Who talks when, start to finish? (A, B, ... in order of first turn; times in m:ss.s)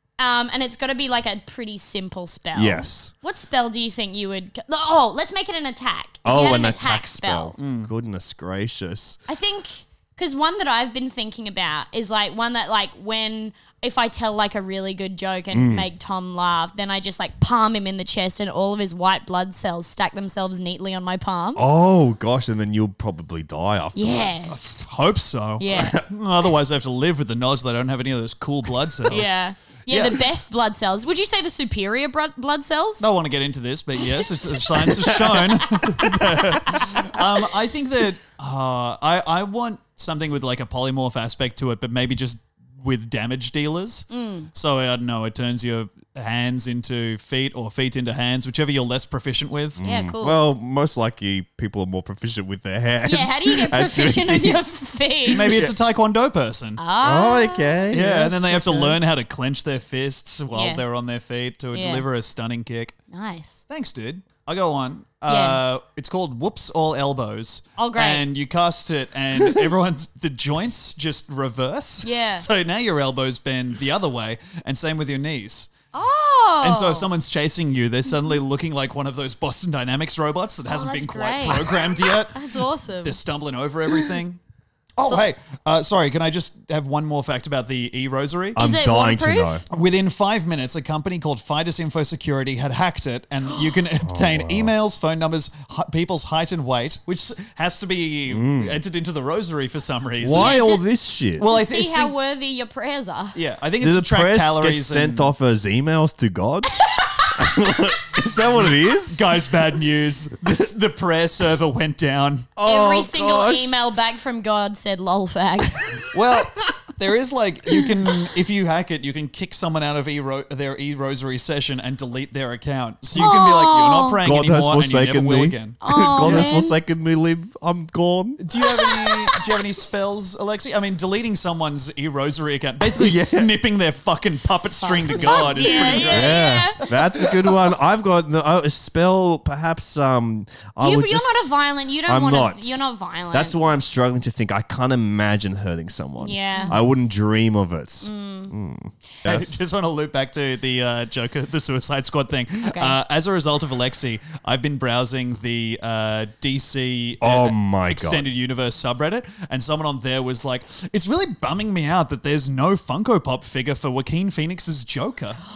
0:00.2-0:07.5 A
0:02.5-0:03.1 B
0:06.2-0:09.2 B
0:07.6-0:07.9 C
0:09.3-0:21.6 A
0:15.5-0:15.9 B
0:21.5-0:24.6 B
0:23.9-0:24.6 A
0:24.5-0:29.4 C
0:25.6-0:26.0 A
0:29.1-0:33.0 A
0:29.9-0:30.2 C
0:33.0-0:49.8 C
0:34.1-0:36.1 A
0:36.8-0:37.2 A
0:44.1-0:44.5 A
0:49.8-0:54.7 B
0:49.8-0:50.4 A
0:53.0-0:55.5 A
0:55.3-0:55.7 B
0:55.3-0:56.8 C
0:56.8-0:58.0 A
0:57.0-0:59.0 B
0:57.9-1:03.0 C
1:00.5-1:00.8 A
1:01.7-1:02.0 A
1:03.1-1:03.6 A
1:03.7-1:15.7 C
1:05.3-1:05.6 A
1:07.8-1:08.2 A
1:12.0-1:12.5 A
1:15.9-1:17.1 A
1:16.6-1:22.4 C
1:20.7-1:23.2 A
1:23.0-1:24.4 C
1:25.0-1:28.6 C
1:28.5-1:29.6 B
1:28.6-1:29.6 A
1:29.7-1:40.6 C
1:34.0-1:34.7 B
1:38.3-1:38.8 B
1:40.2-1:41.4 B
1:40.3-1:40.8 A
1:41.4-1:42.1 C
1:41.4-1:43.4 A
1:43.3-1:45.3 C
1:43.8-1:46.8 B
1:46.8-1:47.3 A
1:47.3-1:49.2 B
1:49.1-1:52.5 C
1:52.6-1:53.8 B
1:52.6-1:56.0 A
1:56.1-2:06.5 C
2:03.1-2:04.2 A
2:04.2-2:08.4 B
2:05.8-2:06.7 A
2:08.4-2:16.4 C
2:08.7-2:09.4 A
2:12.9-2:13.5 B
2:14.8-2:16.8 A
2:15.2-2:21.5 B
2:20.8-2:23.6 A
2:22.0-2:29.6 B
2:26.2-2:26.7 A
2:28.0-2:28.5 A
2:29.2-2:45.4 C
2:32.6-2:33.0 A
2:37.2-2:38.3 B